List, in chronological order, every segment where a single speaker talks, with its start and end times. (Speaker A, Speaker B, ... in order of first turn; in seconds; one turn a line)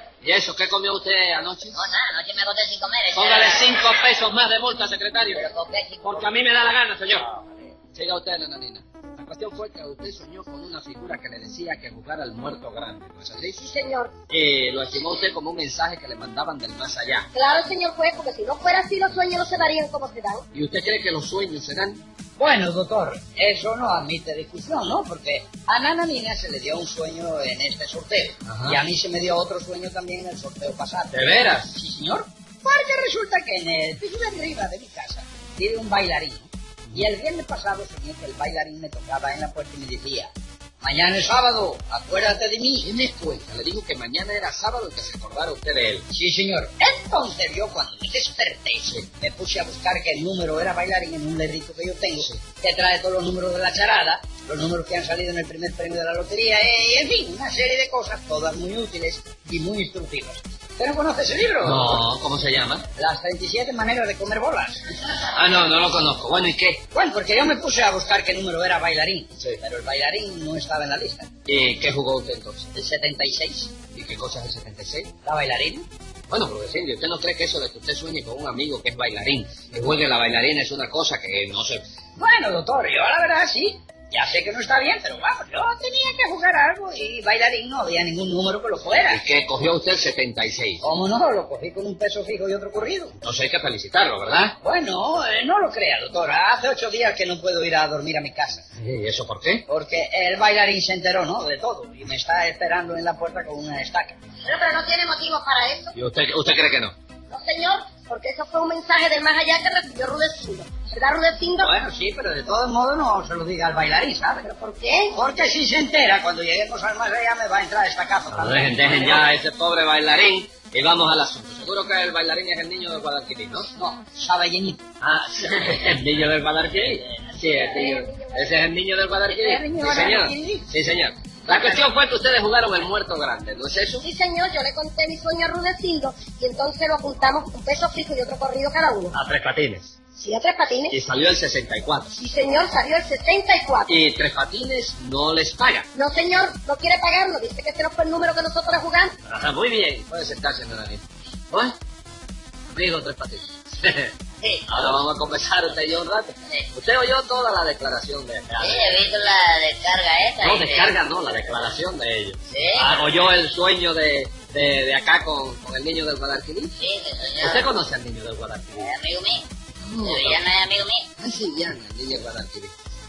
Speaker A: 0.2-1.8
Speaker B: 1.7-3.7
Speaker A: 3.1-5.5
Speaker B: 5.3-6.3
Speaker A: 6.0-7.3
Speaker B: 7.3-7.7
Speaker A: 7.9-13.6
Speaker C: 13.6-14.1
Speaker A: 14.3-17.3
Speaker C: 17.3-20.4
Speaker A: 20.5-22.0
Speaker D: 22.4-42.9
Speaker A: 28.5-28.8
Speaker A: 31.1-31.7
Speaker A: 42.8-46.1
Speaker D: 46.1-62.0
Speaker A: 61.6-62.9
Speaker D: 62.9-64.8
Speaker A: 65.3-66.8
Speaker D: 66.9-71.3
Speaker A: 71.4-72.7
Speaker D: 72.7-73.7
Speaker A: 73.9-75.1
Speaker D: 75.2-75.9
Speaker A: 76.3-81.8
Speaker D: 82.2-89.2
Speaker A: 89.0-90.8
Speaker D: 90.8-93.2
Speaker A: 93.2-94.6
Speaker D: 94.6-98.7
Speaker A: 98.8-99.7
Speaker D: 99.7-104.2
Speaker C: 104.4-105.9
Speaker A: 105.9-106.9
Speaker C: 107.3-111.7
Speaker D: 111.6-114.5
Speaker C: 114.5-115.2
Speaker D: 115.1-119.3
Speaker A: 118.3-123.7
Speaker D: 123.7-124.8
Speaker A: 125.0-134.1
Speaker C: 127.4-128.6
Speaker D: 129.3-130.7
Speaker D: 131.5-131.8
Speaker C: 134.0-139.2
Speaker A: 139.1-139.9
Speaker C: 140.2-141.0
Speaker A: 140.9-142.2
Speaker C: 142.2-143.9
Speaker A: 143.9-145.9
Speaker C: 145.9-149.2
Speaker A: 149.2-151.7
Speaker A: 152.7-154.1
Speaker B: 154.4-154.7
Speaker A: 154.7-159.1
Speaker B: 156.4-156.7
Speaker B: 158.6-160.9
Speaker A: 160.4-166.7
Speaker B: 162.5-162.9
Speaker B: 166.7-167.7
Speaker A: 167.4-168.9
Speaker B: 168.7-169.5
Speaker A: 169.8-170.4
Speaker B: 170.0-171.1
Speaker A: 171.2-172.7